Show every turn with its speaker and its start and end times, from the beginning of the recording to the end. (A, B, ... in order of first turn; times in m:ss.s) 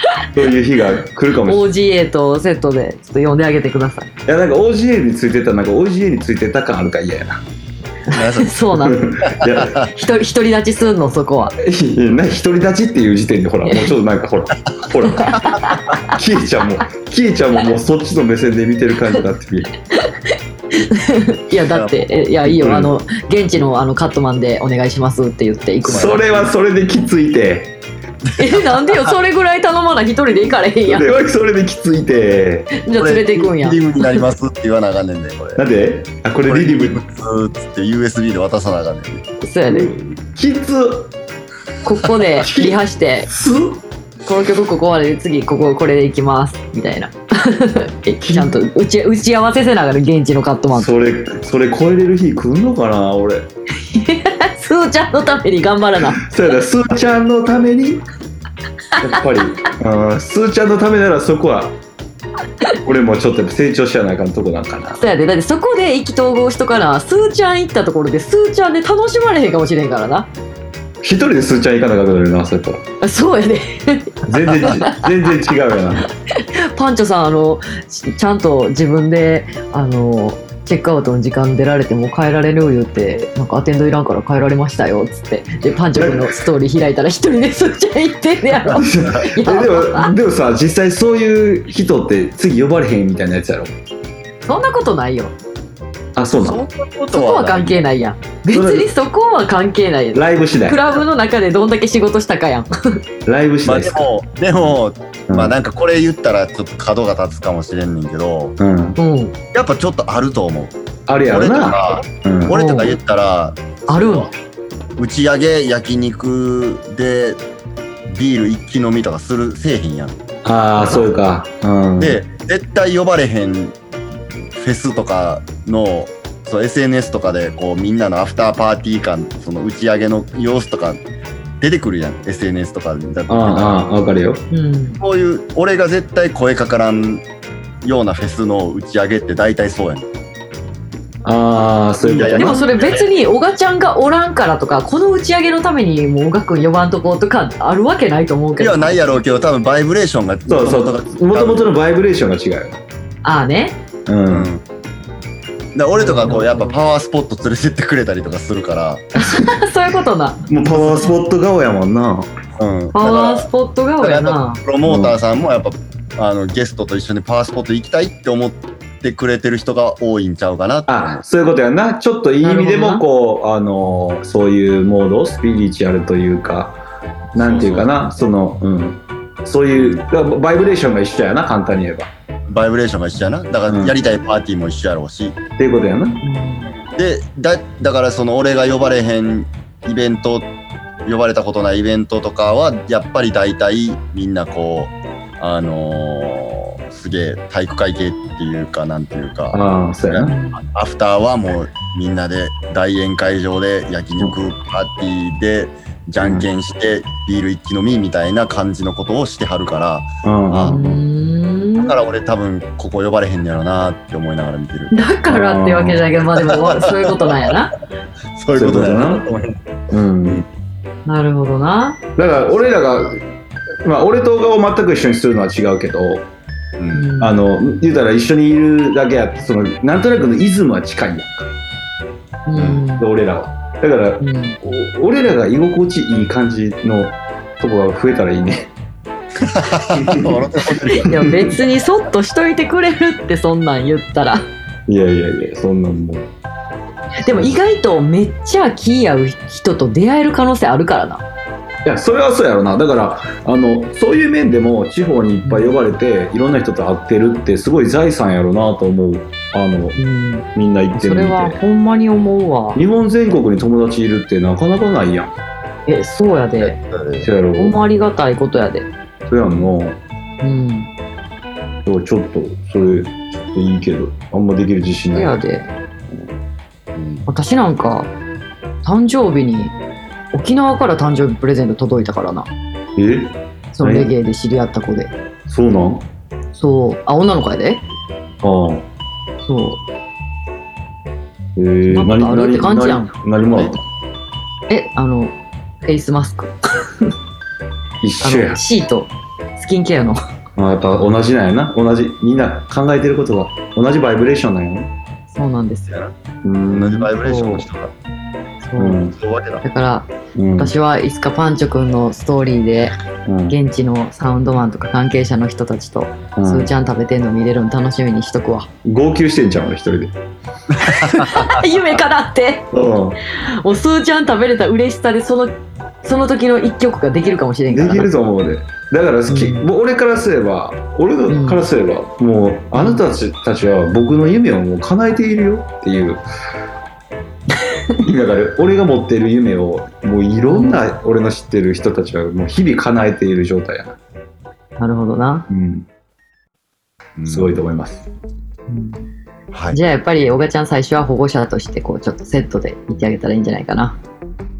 0:00.3-0:01.7 A
0:01.4-0:04.1 B
0:04.2-0:07.4 A
0:08.1-0:09.1 B
0:08.1-0:08.5 C
0:08.8-0:09.8 A
0:09.8-0:11.5 B
0:11.6-0:19.7 A
0:13.7-0:14.0 B
0:15.2-0:16.1 B
0:20.8-0:26.2 B
0:21.7-0:22.3 C
0:22.5-0:22.9 A
0:25.8-0:27.8 A
0:25.9-0:26.2 C
0:28.4-0:31.1 B
0:30.9-0:32.8 A
0:32.7-0:34.2 B
0:32.9-0:35.6 C
0:35.6-0:37.0 A
0:36.5-0:39.3 C
0:39.4-0:39.9 B
0:39.7-0:41.1 A
0:41.8-0:43.3 B
0:42.4-0:42.8 A
0:43.3-0:43.8 A
0:44.2-0:50.9 B
0:48.2-0:48.5 A
0:50.7-0:53.5 A
0:53.9-0:56.2 B
0:56.2-0:58.0 A
0:59.0-1:01.8 A
1:02.8-1:05.0 A
1:05.0-1:10.3 B
1:11.0-1:12.8 A
1:13.0-1:15.0 B
1:14.2-1:16.1 A
1:16.3-1:30.1 B
1:28.7-1:29.3 C
1:28.7-1:33.7 A
1:34.4-1:35.3 B
1:36.2-1:36.6 A
1:36.4-1:37.8 C
1:37.1-1:43.0 B
1:38.5-1:38.9 A
1:40.1-1:41.0 A
1:43.2-1:44.1 A
1:43.6-1:48.6 C
1:45.3-1:45.5 A
1:48.6-1:49.0 A
1:49.0-1:49.4 B
1:49.5-1:54.3 C
1:51.1-1:52.6 A
1:52.5-1:53.0 B
1:53.9-1:54.3 B
1:55.0-1:57.4 C
1:58.0-2:00.2 C
2:00.4-2:02.2 A
2:02.0-2:03.8 C
2:04.5-2:11.0 C
2:11.6-2:13.9 C
2:13.3-2:14.4 A
2:14.5-2:15.0 B
2:15.0-2:17.2 C
2:17.8-2:20.1 C
2:21.2-2:22.6 A
2:22.0-2:23.1 C
2:22.4-2:29.0 B
2:28.6-2:31.7 C
2:30.5-2:32.8 A
2:33.2-2:33.8 B
2:34.1-2:34.5 A
2:34.3-2:34.6 C
2:35.7-2:39.1 C
2:35.9-2:36.7 B
2:39.2-2:41.1 B
2:39.2-2:39.6 A
2:40.5-2:42.3 A
2:42.6-2:51.2 C
2:42.9-2:44.6 B
2:44.8-2:45.2 A
2:50.9-2:56.8 A
2:52.4-2:53.0 B
2:57.3-3:02.1 A
2:57.3-2:57.9 C
2:59.8-3:00.0 C
3:02.5-3:05.4 C
3:03.7-3:03.9 A
3:05.6-3:06.2 A
3:06.2-3:06.7 B
3:06.9-3:10.5 C
3:11.0-3:30.8 C
3:19.5-3:20.3 A
3:20.3-3:20.6 B
3:26.2-3:26.5 A
3:30.2-3:31.0 A
3:30.7-3:31.9 B
3:31.8-3:34.9 C
3:34.9-3:37.7 B
3:35.3-3:36.1 A
3:36.4-3:37.4 C
3:38.4-3:39.6 C
3:38.5-3:39.2 A
3:39.9-3:40.4 A
3:41.0-3:42.0 B
3:42.2-3:43.2 A
3:43.8-3:46.3 A
3:46.8-3:47.1 C
3:46.9-3:47.4 B
3:47.2-3:51.5 A
3:52.4-3:53.0 B
3:52.8-3:58.7 A
3:54.2-3:54.6 B
3:59.4-4:01.1 C
3:59.9-4:01.5 A
4:01.0-4:04.4 B
4:04.9-4:06.3 A
4:07.2-4:11.2 B
4:11.8-4:20.0 A
4:15.4-4:15.7 B
4:20.0-4:20.4 B
4:20.5-4:21.6 A
4:21.0-4:22.8 B
4:22.7-4:25.4 A
4:25.9-4:26.8 B
4:26.6-4:27.3 C
4:27.2-4:27.8 A
4:27.6-4:28.9 B
4:29.3-4:30.0 A
4:30.4-4:30.9 B
4:31.8-4:35.4 A
4:35.1-4:35.7 B
4:36.9-4:37.2 C
4:37.3-4:38.1 B
4:38.8-4:39.7 B
4:40.3-4:42.5 B
4:43.0-4:44.1 A
4:43.7-4:45.1 B
4:45.5-4:46.0 A
4:46.5-4:47.8 B
4:48.4-4:48.9 A
4:49.4-4:49.8 B
4:51.6-4:53.8 A
4:51.9-4:53.1 B
4:53.5-4:53.8 C
4:54.7-4:56.5 B
4:58.0-4:58.6 A
4:58.2-5:00.2 B
5:00.6-5:04.9 A
5:05.3-5:06.0 B
5:06.4-5:07.1 A
5:06.7-5:07.9 C
5:07.2-5:07.6 B
5:08.6-5:09.0 B
5:08.8-5:09.2 A
5:09.2-5:09.6 C
5:09.6-5:12.9 B
5:10.4-5:10.7 A
5:13.3-5:13.6 A
5:13.5-5:18.7 B
5:16.4-5:16.7 A
5:18.8-5:20.1 A
5:20.8-5:22.7 B
5:22.7-5:23.2 A
5:23.3-5:28.1 B
5:27.7-5:36.2 A
5:29.3-5:29.7 B
5:31.3-5:31.6 B
5:32.7-5:33.0 B
5:38.0-5:44.0 A
5:40.5-5:40.8 B
5:44.8-5:45.5 B
5:45.5-5:45.8 A
5:47.2-5:47.6 C
5:47.3-5:48.0 A
5:48.7-5:49.0 B
5:49.5-5:49.8 C
5:49.7-5:54.0 B